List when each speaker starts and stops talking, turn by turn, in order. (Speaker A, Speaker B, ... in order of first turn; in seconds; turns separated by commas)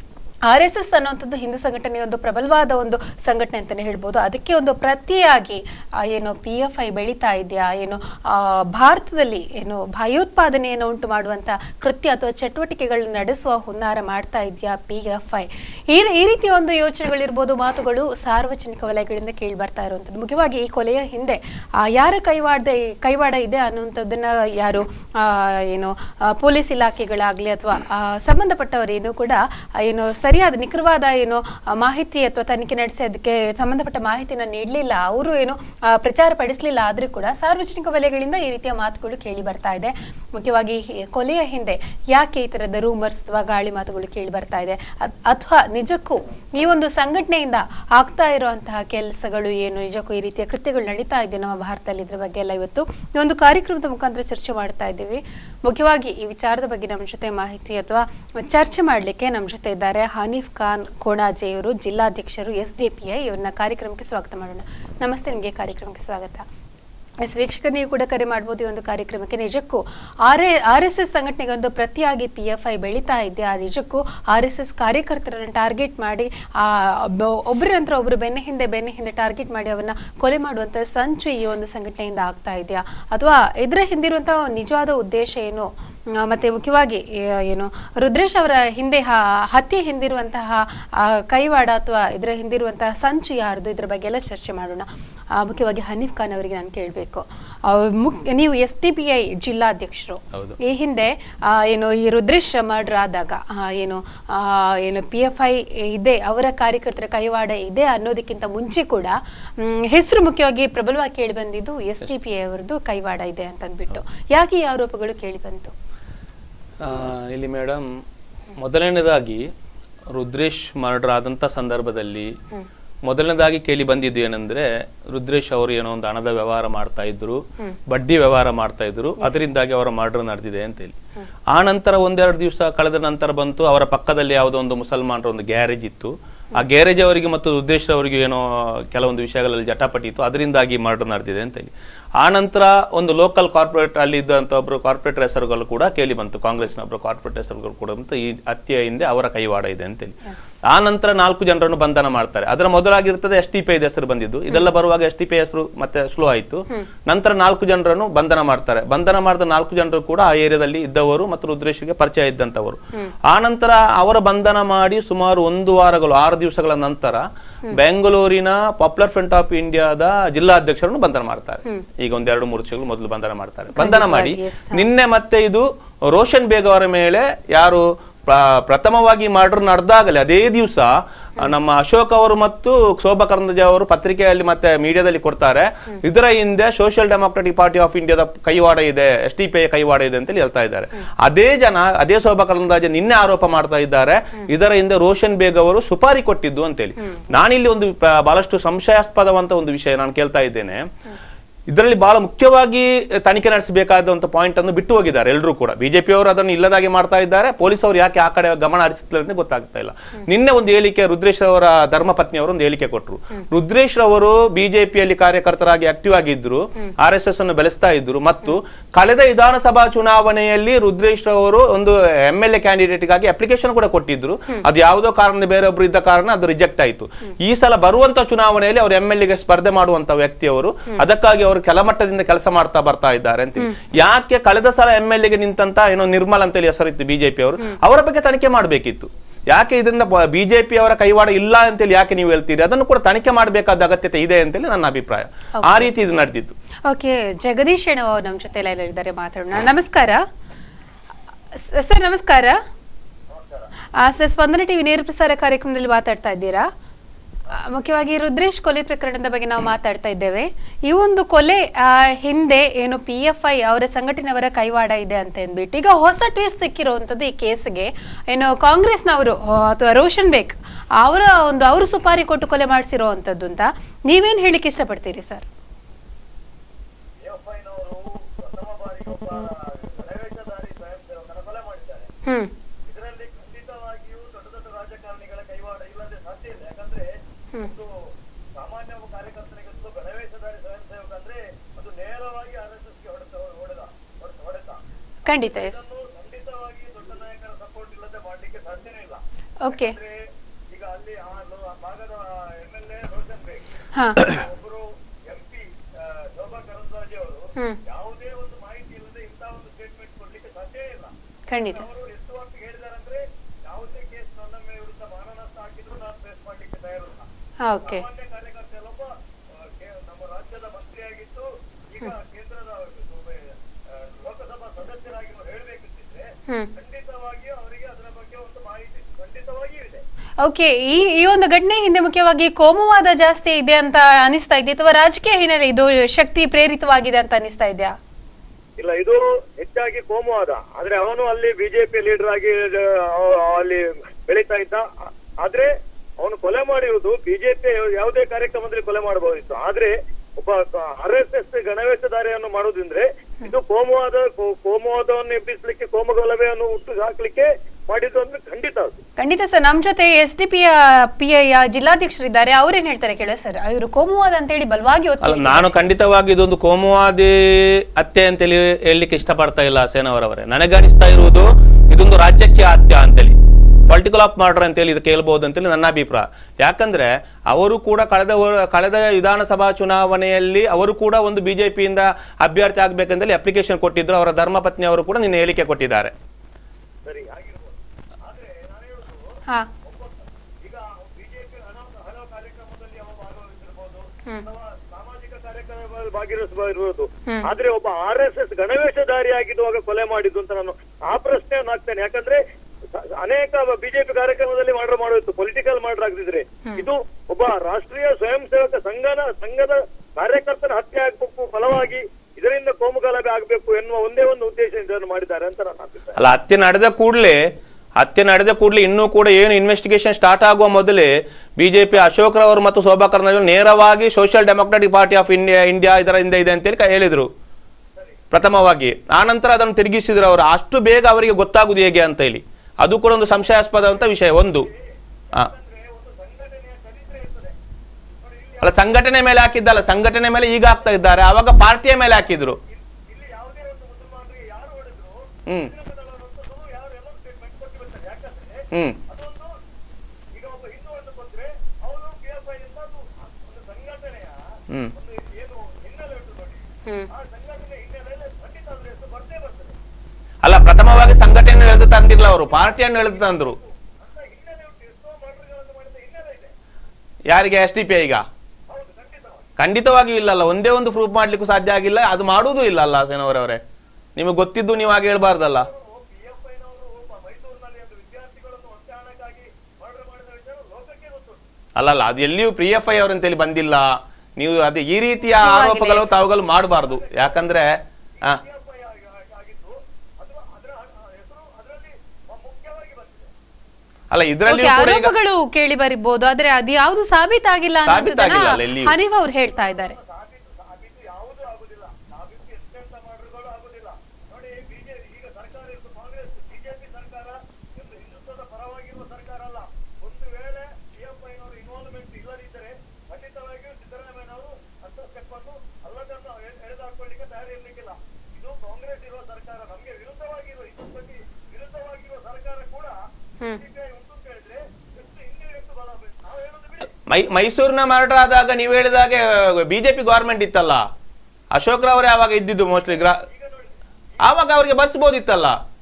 Speaker A: 0.5-66.4, Speaker A: 67.2-115.7, Speaker B: 116.8-117.9, Speaker B: 118.6-119.5, Speaker B: 120.1-122.3, Speaker B: 123.0-130.9, Speaker A: 129.2-129.4, Speaker B: 131.5-200.9, Speaker A: 173.7-174.8, Speaker B: 201.7-246.5, Speaker A: 245.6-245.9, Speaker A: 246.8-250.2, Speaker A: 251.6-252.6, Speaker C: 253.3-253.7, Speaker A: 254.0-256.7, Speaker A: 257.5-275.4, Speaker C: 277.2-282.1, Speaker A: 282.2-282.5, Speaker C: 282.9-287.9, Speaker C: 288.5-294.8, Speaker A: 295.2-295.8, Speaker C: 295.4-303.6, Speaker A: 299.6-300.0, Speaker A: 303.9-304.3, Speaker C: 304.2-317.3, Speaker A: 311.5-311.9, Speaker A: 317.6-318.0, Speaker C: 317.8-330.0, Speaker A: 330.4-337.9, Speaker C: 338.8-359.0, Speaker A: 359.2-365.7, Speaker B: 365.2-373.4, Speaker B: 373.9-386.1, Speaker C: 387.0-402.4, Speaker C: 403.0-416.2, Speaker B: 416.1-417.4, Speaker B: 418.0-427.3, Speaker B: 428.3-434.7, Speaker C: 434.6-437.5, Speaker C: 438.2-438.9, Speaker B: 438.6-442.6, Speaker C: 442.7-449.5, Speaker B: 445.5-445.7, Speaker B: 448.7-449.0, Speaker C: 450.3-454.4, Speaker C: 454.9-459.8, Speaker B: 460.4-463.6, Speaker C: 462.9-466.5, Speaker B: 467.3-468.2, Speaker C: 468.7-469.5, Speaker B: 469.6-473.6, Speaker B: 474.1-475.7, Speaker C: 475.5-481.4, Speaker B: 481.8-488.4, Speaker A: 485.4-486.1, Speaker C: 486.9-487.4, Speaker C: 488.3-493.3, Speaker B: 494.1-495.1, Speaker A: 494.5-499.9, Speaker B: 497.9-498.9, Speaker C: 499.5-523.0, Speaker C: 523.5-526.9, Speaker B: 527.0-530.8, Speaker B: 531.5-533.2, Speaker C: 533.1-533.7, Speaker B: 534.2-535.6